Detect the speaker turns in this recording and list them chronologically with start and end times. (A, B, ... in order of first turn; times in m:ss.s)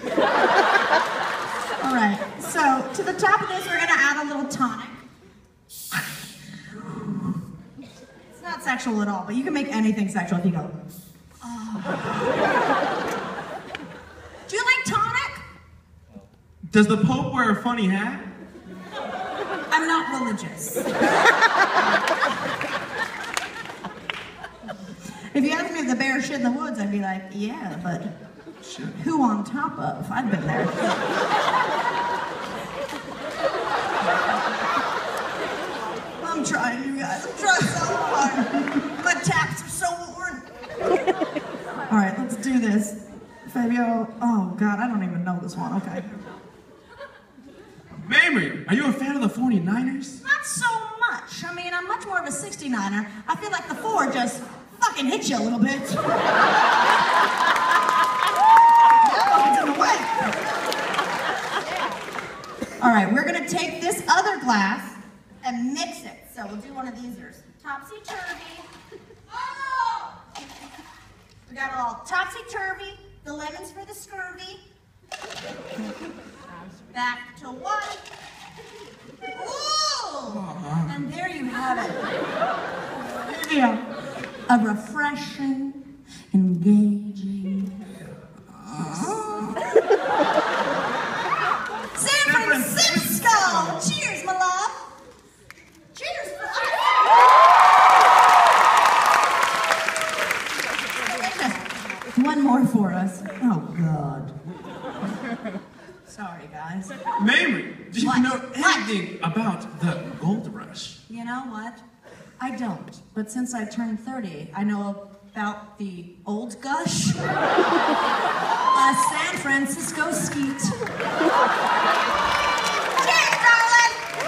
0:01.8-0:05.0 A
0:08.3-0:10.7 A
0:11.4-0:12.2 A
0:14.5-0:15.4 A
0:16.7-0:18.2 B
0:19.7-0:20.8 A
0:25.3-0:28.1 A
0:28.6-0:29.0 B
0:29.0-0:30.8 A
0:36.2-0:40.4 A
0:41.9-0:46.1 A
0:48.0-0:50.2 B
0:50.2-0:56.0 A
0:59.0-1:00.3 A
1:02.8-1:08.7 A
1:09.4-1:10.2 A
1:11.5-1:14.6 A
1:16.9-1:18.0 A
1:19.3-1:22.0 A
1:20.3-1:21.0 B
1:23.2-1:23.8 A
1:24.5-1:25.8 A
1:26.3-1:27.7 A
1:28.7-1:29.1 B
1:28.7-1:29.7 A
1:32.0-1:34.8 A
1:32.2-1:33.8 B
1:35.9-1:37.2 A
1:41.1-1:44.3 A
1:46.1-1:46.9 A
1:47.2-1:51.0 B
1:48.0-1:48.9 A
1:51.1-1:51.8 A
1:52.4-1:57.2 A
1:58.7-2:00.9 A
2:03.0-2:04.1 A